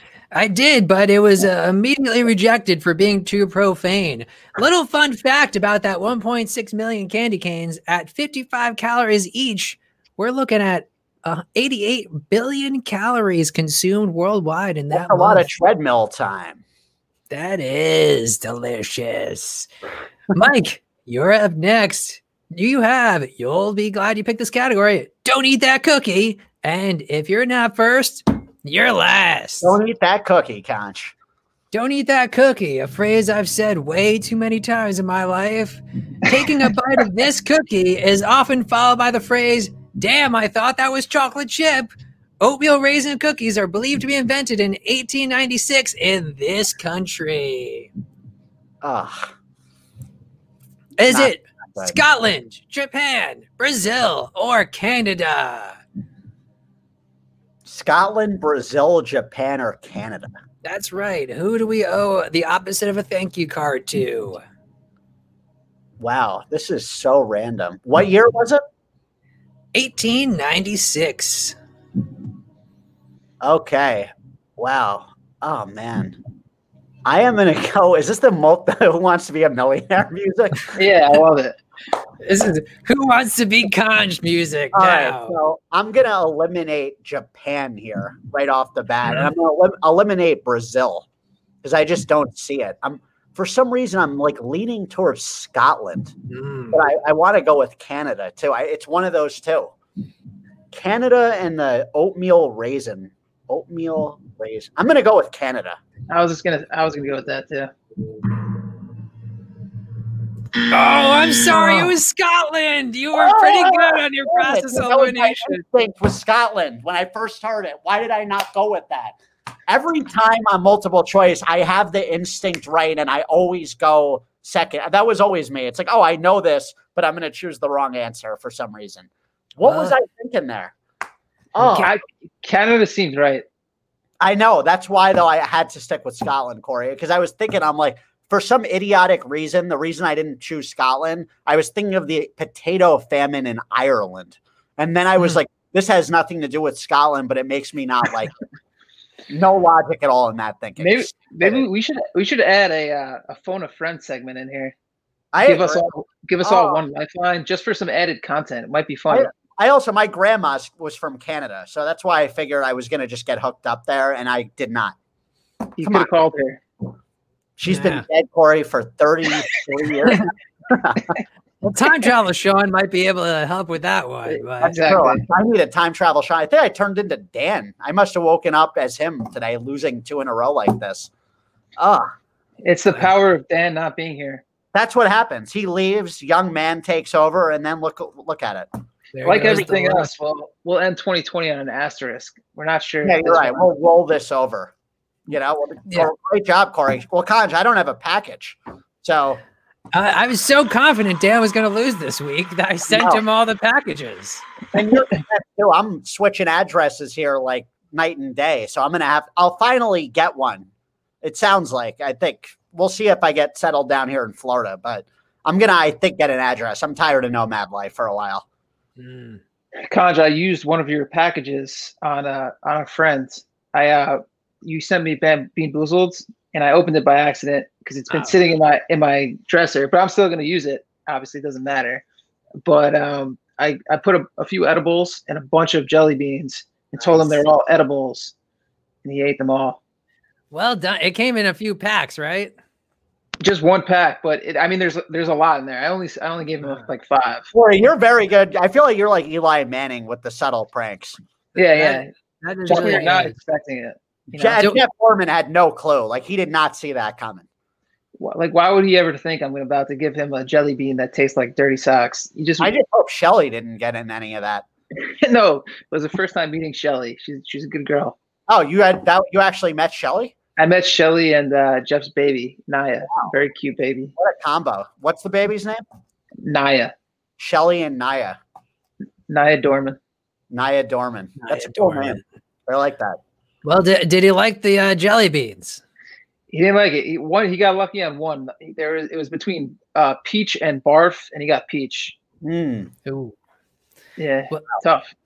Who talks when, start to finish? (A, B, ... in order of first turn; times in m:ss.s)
0:00.3-0:15.5 A
0:14.9-0:16.6 B
0:17.3-0:19.7 A
0:20.3-0:29.8 A
0:29.6-0:31.1 B
0:31.7-0:41.9 A
0:42.4-0:47.9 A
0:48.8-0:49.3 B
0:51.0-0:55.8 A
0:51.1-0:52.0 B
0:57.6-1:00.4 B
1:00.6-1:04.4 A
1:06.0-1:08.6 B
1:09.7-1:11.6 A
1:13.4-1:16.2 B
1:17.0-1:20.7 B
1:20.8-1:21.6 C
1:22.2-1:25.4 A
1:24.7-1:31.1 B
1:31.6-1:36.2 B
1:36.3-1:36.8 A
1:36.7-1:39.7 B
1:40.7-1:45.8 B
1:46.1-1:47.7 C
1:50.7-1:55.6 A
1:53.1-1:59.2 B
1:59.7-2:10.7 B
2:09.6-2:09.9 A
2:11.6-2:11.9 B
2:11.6-2:11.9 A
2:11.8-2:13.4 C
2:14.2-2:28.4 B
2:29.3-2:31.7 B
2:30.8-2:34.8 C
2:35.3-2:35.8 B
2:35.4-2:39.3 C
2:36.4-2:36.8 B
2:39.1-2:45.0 B
2:45.8-2:46.6 C
2:45.8-2:46.1 B
2:47.6-2:51.1 B
2:47.7-2:48.0 A
2:51.6-2:54.8 A
2:54.3-2:55.2 C
2:54.6-3:01.1 B
3:01.8-3:02.1 B
3:02.6-3:04.4 C
3:04.7-3:08.7 B
3:09.1-3:10.1 A
3:09.2-3:13.7 C
3:13.0-3:14.7 B
3:15.3-3:19.4 B
3:19.9-3:24.4 A
3:22.9-3:23.2 B
3:24.7-3:30.7 B
3:31.2-3:38.4 B
3:39.0-3:39.4 A
3:39.9-3:52.0 C
3:52.6-3:58.3 C
3:57.0-3:57.2 B
3:59.0-3:59.8 C
4:00.5-4:02.5 A
4:03.4-4:07.5 C
4:07.5-4:11.2 B
4:11.6-4:12.1 C
4:11.6-4:13.4 A
4:12.7-4:14.8 C
4:12.7-4:13.0 B
4:14.3-4:17.4 B
4:18.2-4:22.7 C
4:22.6-4:24.7 B
4:25.0-4:28.2 C
4:28.5-4:30.3 B
4:30.6-4:34.1 C
4:34.2-4:35.8 B
4:36.4-4:36.9 C
4:37.4-4:38.4 B
4:39.3-4:40.0 C
4:40.5-4:43.2 B
4:41.4-4:42.2 A
4:43.6-4:45.8 A
4:46.5-4:52.2 C
4:52.4-4:52.9 B
4:53.1-4:53.4 A
4:54.2-4:55.1 C